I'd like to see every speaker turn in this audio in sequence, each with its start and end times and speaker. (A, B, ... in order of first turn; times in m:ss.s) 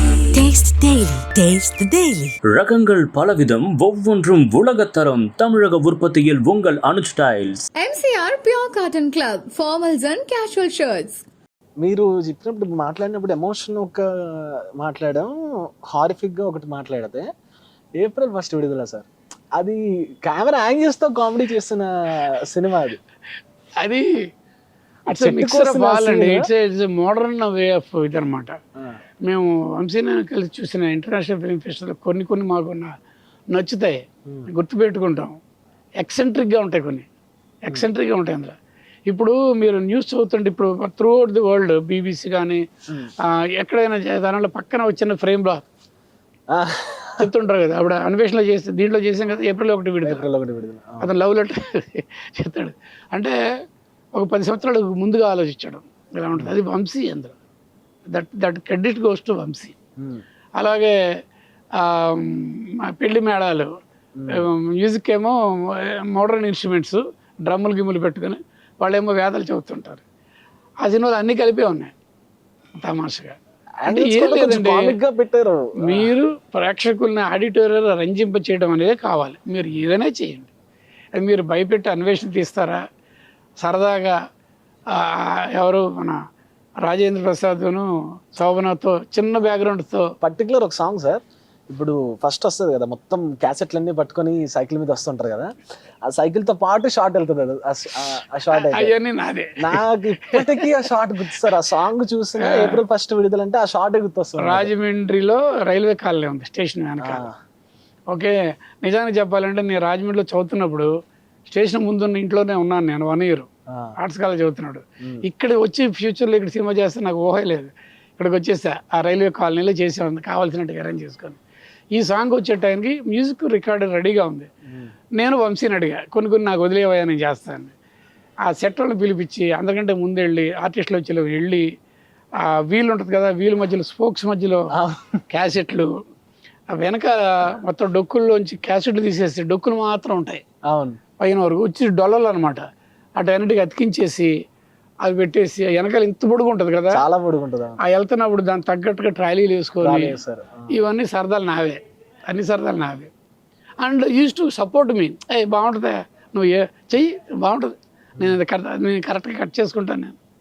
0:00.3-0:02.3 A
0:02.5-0:07.7 B
0:07.8-0:11.2 C
0:11.8-0:17.3 D
0:18.0-0:23.0 D
0:23.8-0:24.1 E
0:25.1-0:26.5 D
0:25.1-0:28.6 E
0:29.2-0:32.9 E
0:33.5-0:35.4 E
0:36.0-0:37.1 E
0:37.6-0:38.5 E
0:39.1-0:42.6 E
0:43.3-0:45.6 E
0:46.5-0:47.3 D
0:47.2-0:50.3 E
0:50.0-0:51.1 D
0:51.0-0:53.3 E
0:54.1-0:57.4 E
0:58.1-0:59.8 E
1:00.0-1:00.2 D
1:00.6-1:00.9 E
1:01.8-1:03.7 E
1:04.2-1:04.4 D
1:04.3-1:10.0 E
1:10.8-1:11.9 E
1:12.8-1:15.0 E
1:13.8-1:16.1 D
1:15.8-1:20.5 E
1:21.2-1:22.8 E
1:23.6-1:24.2 E
1:24.9-1:26.2 E
1:26.8-1:30.1 E
1:30.2-1:35.5 D
1:36.0-1:39.0 D
1:38.5-1:40.7 E
1:39.6-1:44.7 D
1:42.4-1:42.8 E
1:44.4-1:47.2 E
1:47.0-1:47.3 D
1:48.1-1:50.9 E
1:51.5-1:53.5 E
1:54.0-2:01.4 E
2:01.9-2:04.5 E
2:04.7-2:04.9 D
2:05.2-2:07.7 E
2:08.5-2:11.7 E
2:12.5-2:14.7 E
2:14.7-2:15.2 D
2:15.3-2:15.9 E
2:16.7-2:20.4 E
2:20.7-2:21.0 D
2:21.2-2:22.6 E
2:23.2-2:24.3 E
2:25.0-2:27.0 E
2:26.9-2:27.8 D
2:27.8-2:30.2 E
2:29.8-2:30.8 D
2:30.7-2:33.1 E
2:33.8-2:40.2 E